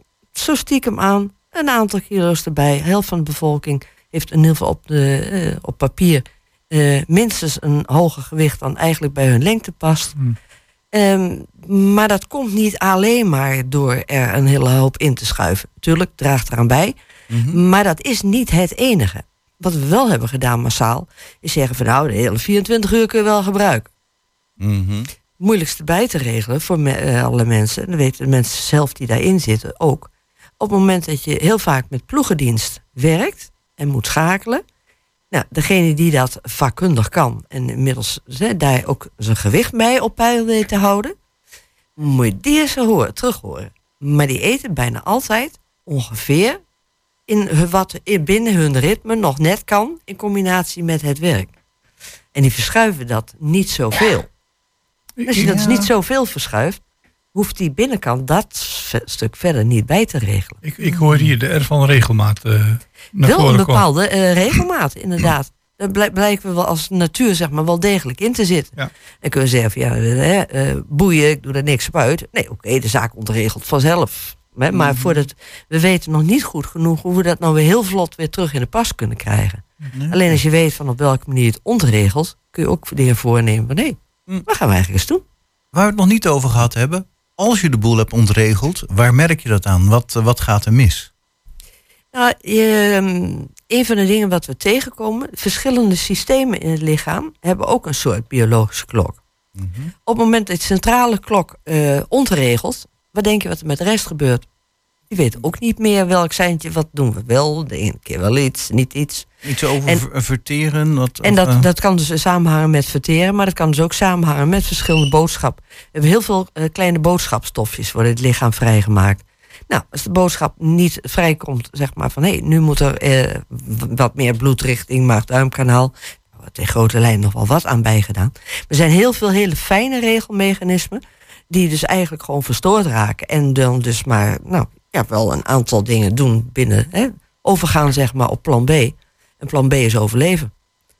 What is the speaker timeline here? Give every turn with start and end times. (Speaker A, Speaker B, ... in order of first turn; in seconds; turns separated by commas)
Speaker A: 0.3-10.2, Speaker A: 10.9-17.0, Speaker B: 17.3-17.6, Speaker A: 17.5-23.9, Speaker B: 24.6-25.1, Speaker A: 25.4-34.6, Speaker A: 35.3-41.2, Speaker A: 42.0-46.6, Speaker A: 47.3-51.5, Speaker A: 52.4-54.3, Speaker C: 55.2-55.8, Speaker A: 55.3-56.8, Speaker A: 57.3-60.6, Speaker C: 60.6-63.9, Speaker B: 60.8-61.3, Speaker A: 63.2-85.2, Speaker B: 74.7-75.2, Speaker B: 79.9-80.4, Speaker B: 85.7-91.1, Speaker A: 92.1-99.2, Speaker B: 99.6-99.9, Speaker A: 100.0-104.5, Speaker A: 105.1-110.0, Speaker B: 109.4-111.7, Speaker A: 111.2-140.5